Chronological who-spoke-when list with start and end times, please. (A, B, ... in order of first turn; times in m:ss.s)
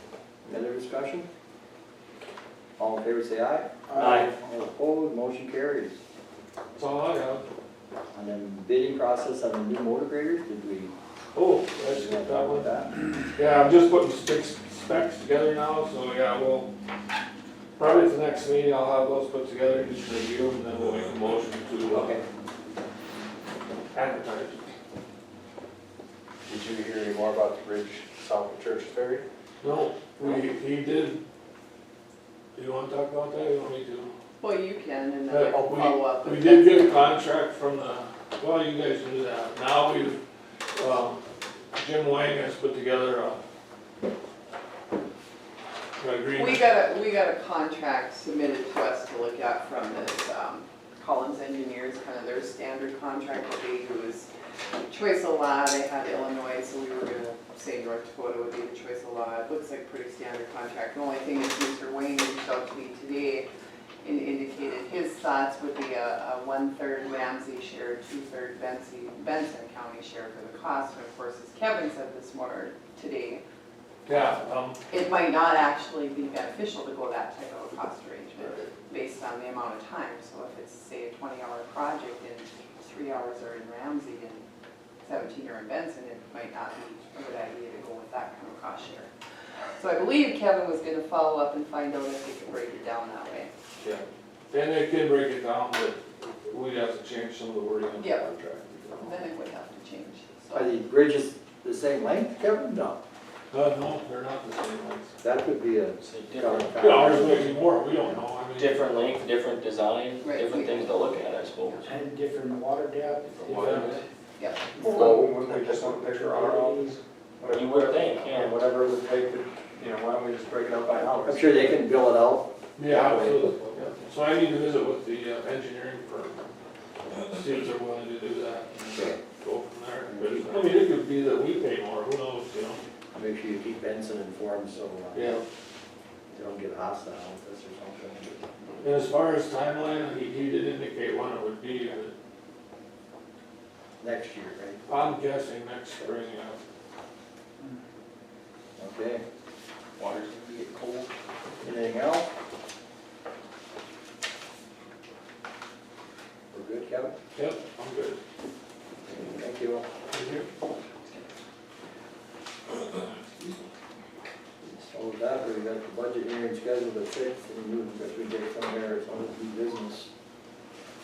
0:00.4-0:01.3 A
0:02.8-0:06.0 A
0:03.9-0:04.2 B
0:06.8-0:07.4 C
0:08.1-0:10.9 A
0:11.3-0:12.7 C
0:11.9-0:12.9 A
0:13.3-0:16.7 C
0:17.8-0:22.2 C
0:21.9-0:22.2 A
0:23.9-0:24.7 C
0:26.5-0:29.2 A
0:29.6-0:31.2 C
0:32.5-0:34.1 C
0:34.4-0:37.2 D
0:35.3-0:40.2 C
0:40.8-0:43.4 C
0:46.0-0:46.7 C
0:46.3-0:54.3 D
0:54.9-1:03.5 D
1:04.0-1:13.4 D
1:14.0-1:14.8 C
1:14.9-1:24.5 D
1:25.0-1:29.1 D
1:29.8-1:33.5 D
1:33.8-1:39.2 C
1:38.0-1:38.2 D
1:39.0-1:40.7 D
1:40.5-1:43.0 A
1:43.5-1:45.1 C
1:45.2-1:48.2 A
1:46.0-1:46.7 E
1:46.8-1:49.1 C
1:48.6-1:51.8 E
1:50.2-1:51.8 D
1:51.8-1:53.9 B
1:53.4-1:54.0 E
1:53.4-1:53.9 C
1:54.4-1:54.6 D
1:54.8-2:01.8 F
1:54.8-1:57.0 B
1:57.5-1:58.5 E
2:01.0-2:03.5 A
2:02.8-2:06.5 C
2:07.2-2:12.8 C
2:08.9-2:09.2 A
2:10.0-2:10.8 A
2:13.1-2:15.4 A
2:15.1-2:15.4 C
2:16.3-2:18.4 A
2:18.8-2:22.1 C
2:24.0-2:24.8 A
2:24.9-2:26.6 C
2:28.8-2:29.2 A
2:30.0-2:31.1 E
2:31.6-2:32.3 A
2:36.5-2:37.1 A
2:37.3-2:38.2 C
2:39.2-2:39.8 A
2:40.1-2:40.5 C
2:44.6-2:50.1 A